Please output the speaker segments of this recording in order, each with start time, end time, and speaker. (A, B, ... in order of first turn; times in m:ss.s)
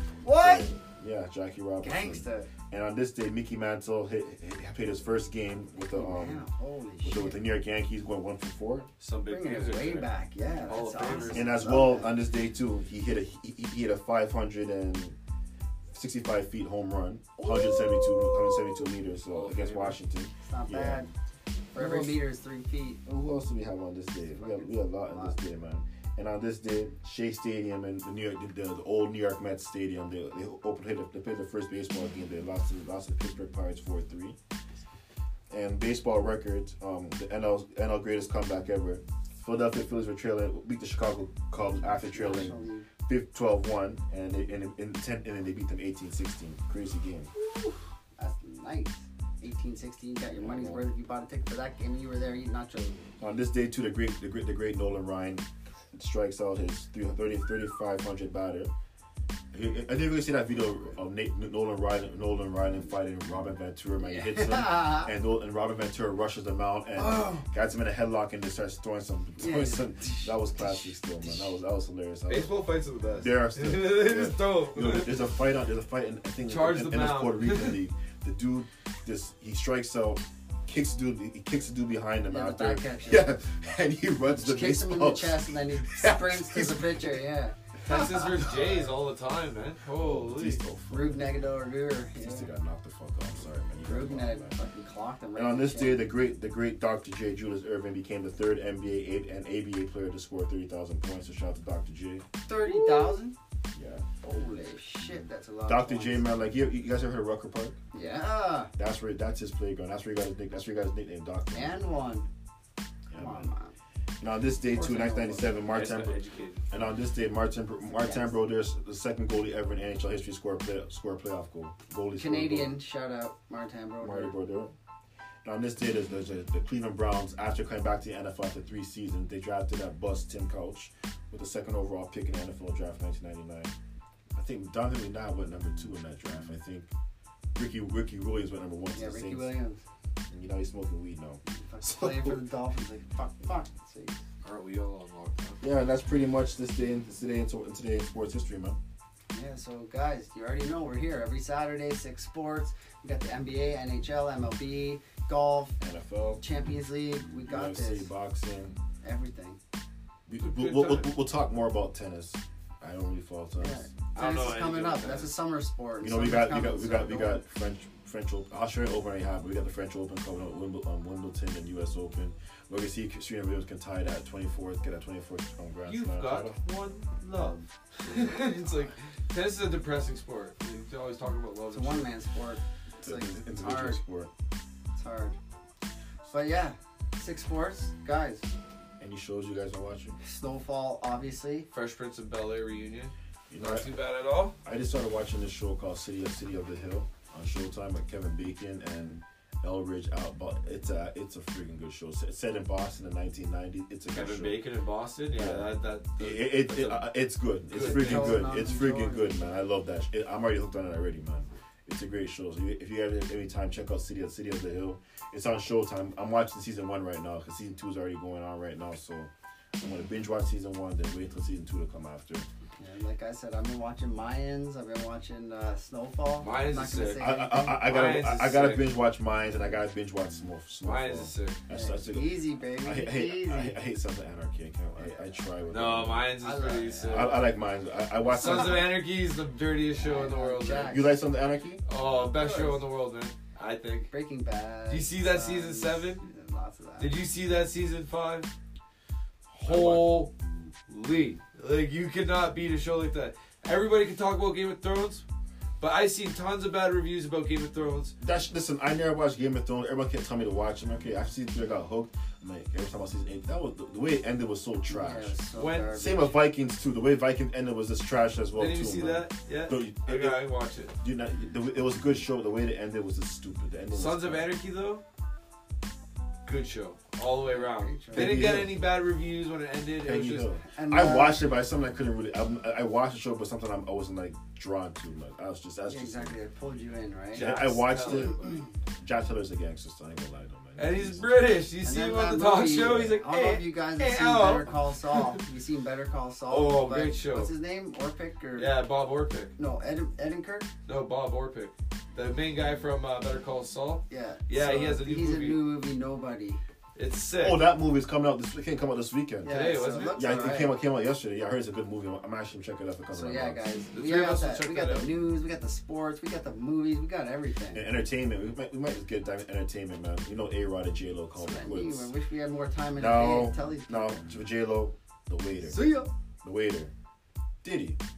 0:00.2-0:00.7 A
0:00.4-0:06.5 B
0:01.8-0:02.5 A
0:05.9-0:07.4 A
0:07.0-0:08.9 B
0:09.0-0:10.1 C
0:09.3-0:12.1 A
0:10.7-0:11.5 C
0:11.1-0:15.2 B
0:15.9-0:21.0 B
0:17.4-0:18.5 A
0:19.3-0:20.0 C
0:20.5-0:21.1 A
0:21.7-0:23.0 A
0:21.8-0:22.2 B
0:23.1-0:34.4 B
0:24.3-0:25.4 A
0:35.5-0:47.3 B
0:41.8-0:42.9 A
0:47.5-0:53.0 A
0:50.4-0:50.8 B
0:53.2-0:58.7 B
0:59.5-1:12.6 B
1:04.0-1:05.1 A
1:07.0-1:07.4 A
1:09.4-1:11.5 A
1:12.3-1:15.3 C
1:13.2-1:27.0 B
1:16.5-1:17.8 C
1:22.3-1:23.4 A
1:24.4-1:28.2 A
1:27.8-1:30.6 C
1:30.0-1:31.4 B
1:30.9-1:32.5 A
1:32.2-1:34.6 B
1:33.8-1:36.1 A
1:35.4-1:42.3 B
1:42.5-1:43.4 A
1:42.7-1:43.2 C
1:43.8-1:44.1 B
1:44.2-1:46.3 A
1:45.7-1:47.8 B
1:47.9-1:48.7 A
1:48.8-1:51.8 B
1:51.5-1:52.3 A
1:53.1-1:53.5 B
1:53.2-1:53.7 A
1:54.2-1:56.2 B
1:54.6-1:55.6 A
1:55.7-1:56.7 C
1:56.7-2:02.7 B
1:57.9-1:58.4 A
2:02.2-2:04.4 A
2:04.0-2:04.7 B
2:05.4-2:13.7 B
2:14.4-2:16.9 B
2:17.6-2:19.5 B
2:19.0-2:19.8 A
2:20.3-2:22.4 B
2:21.5-2:24.2 A
2:24.4-2:25.6 C
2:25.6-2:28.8 B
2:29.3-2:35.8 A
2:35.8-2:36.4 B
2:36.4-2:38.1 A
2:37.5-2:38.8 B
2:39.0-2:39.6 A
2:40.3-2:43.9 B
2:40.4-2:41.1 C
2:43.6-2:47.4 A
2:44.2-2:45.3 C
2:46.0-2:56.6 B
2:55.9-3:02.1 C
3:01.7-3:04.0 A
3:03.0-3:04.3 B
3:05.0-3:05.4 A
3:06.3-3:08.5 A
3:09.0-3:10.2 B
3:10.2-3:11.7 A
3:11.7-3:14.6 C
3:13.5-3:13.9 B
3:14.6-3:24.6 B
3:24.1-3:27.1 C
3:25.3-3:42.5 B
3:27.7-3:28.5 C
3:27.8-3:29.4 A
3:42.8-3:47.8 A
3:46.4-3:48.9 C
3:47.2-3:56.4 B
3:50.8-3:51.6 C
3:51.7-3:53.8 A
3:55.0-3:55.3 A
3:55.7-3:57.5 C
3:56.4-3:57.4 A
3:57.0-3:58.9 B
3:58.3-4:01.0 C
3:58.4-3:58.9 A
3:59.9-4:01.1 A
4:00.9-4:01.8 B
4:01.9-4:04.1 C
4:02.3-4:02.8 A
4:04.1-4:07.2 A
4:04.9-4:06.2 C
4:07.0-4:08.5 C
4:09.5-4:10.3 B
4:09.6-4:10.3 C
4:10.9-4:15.2 C
4:15.8-4:18.2 C
4:18.2-4:25.4 B
4:24.9-4:26.4 A
4:25.6-4:26.0 C
4:25.9-4:30.4 B
4:28.6-4:31.0 C
4:31.0-4:34.5 B
4:33.9-4:35.0 C
4:36.4-4:40.5 C
4:37.5-4:38.6 A
4:38.1-4:38.8 B
4:40.0-4:46.4 B
4:40.7-4:41.5 A
4:45.9-4:48.6 A
4:47.3-4:48.6 C
4:47.3-4:48.4 B
4:49.0-4:51.5 B
4:50.8-4:55.4 C
4:51.8-4:58.7 A
4:56.5-4:57.5 C
4:58.6-4:59.5 C
4:59.6-5:00.7 A
5:00.8-5:05.6 C
5:04.1-5:06.6 A
5:07.0-5:07.7 C
5:07.4-5:13.7 B
5:09.4-5:10.7 A
5:09.5-5:10.2 C
5:13.1-5:17.8 A
5:13.9-5:15.1 C
5:17.7-5:22.1 B
5:21.4-5:24.2 A
5:23.0-5:26.9 B
5:25.6-5:26.1 A
5:27.6-5:28.0 B